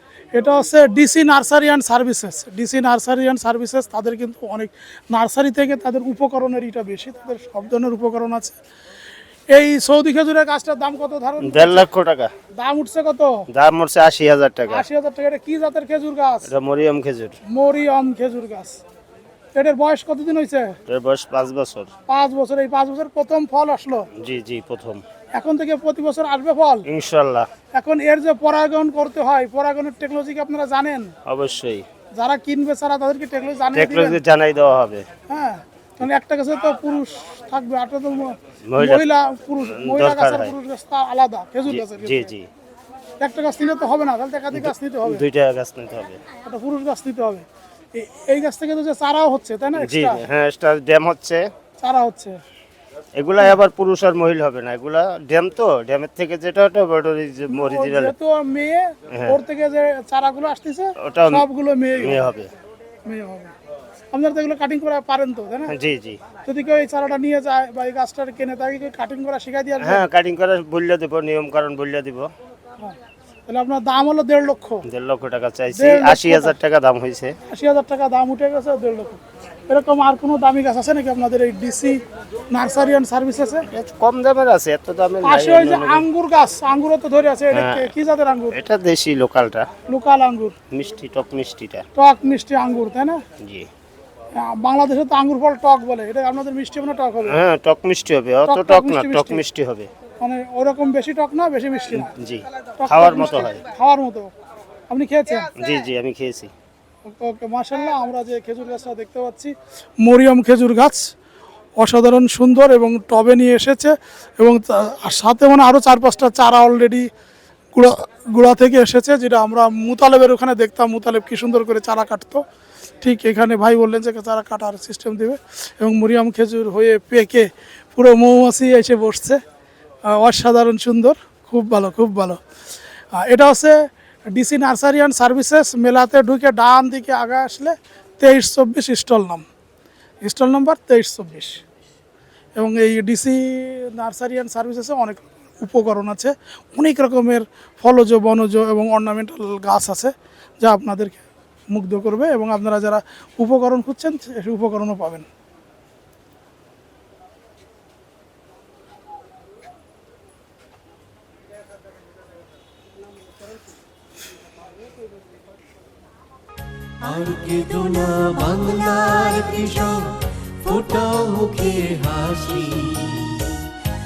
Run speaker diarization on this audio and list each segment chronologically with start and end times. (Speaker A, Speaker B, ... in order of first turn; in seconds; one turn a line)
Speaker A: 0.3-8.6
Speaker A: 9.5-11.8
Speaker B: 11.4-12.3
Speaker A: 12.6-13.5
Speaker B: 13.5-14.8
Speaker A: 14.7-16.5
Speaker B: 16.5-17.4
Speaker A: 17.5-18.8
Speaker A: 19.5-20.8
Speaker B: 20.9-21.9
Speaker A: 22.1-24.1
Speaker B: 24.2-25.0
Speaker A: 25.4-26.9
Speaker B: 26.9-27.5
Speaker A: 27.7-31.2
Speaker B: 31.3-31.9
Speaker A: 32.1-34.2
Speaker B: 33.7-35.1
Speaker A: 35.3-42.3
Speaker B: 38.6-39.0
Speaker B: 39.6-40.5
Speaker B: 41.7-42.5
Speaker A: 43.2-45.2
Speaker B: 44.5-46.2
Speaker A: 46.4-50.2
Speaker B: 49.8-51.5
Speaker A: 51.8-52.4
Speaker B: 53.2-58.1
Speaker A: 57.5-62.2
Speaker B: 59.1-59.4
Speaker B: 61.0-61.5
Speaker B: 62.0-62.5
Speaker A: 63.1-63.5
Speaker A: 64.1-65.7
Speaker B: 65.7-66.2
Speaker A: 66.4-70.0
Speaker B: 69.8-72.3
Speaker A: 72.8-74.8
Speaker B: 74.9-77.3
Speaker A: 75.7-76.5
Speaker A: 77.5-83.7
Speaker B: 83.7-86.1
Speaker A: 85.2-88.6
Speaker B: 87.5-87.9
Speaker B: 88.5-89.7
Speaker A: 89.9-90.5
Speaker B: 90.7-91.9
Speaker A: 92.0-93.2
Speaker B: 93.4-93.7
Speaker A: 94.3-97.4
Speaker B: 97.3-99.9
Speaker A: 98.5-99.4
Speaker A: 100.2-102.1
Speaker B: 102.0-103.6
Speaker A: 102.8-104.3
Speaker A: 104.9-105.5
Speaker B: 105.5-106.5
Speaker A: 107.0-111.1
Speaker A: 111.8-117.1
Speaker A: 117.7-122.4
Speaker A: 123.0-129.4
Speaker A: 130.1-132.4
Speaker A: 133.1-139.4
Speaker A: 140.2-141.6
Speaker A: 142.6-155.3
Speaker C: 167.0-173.7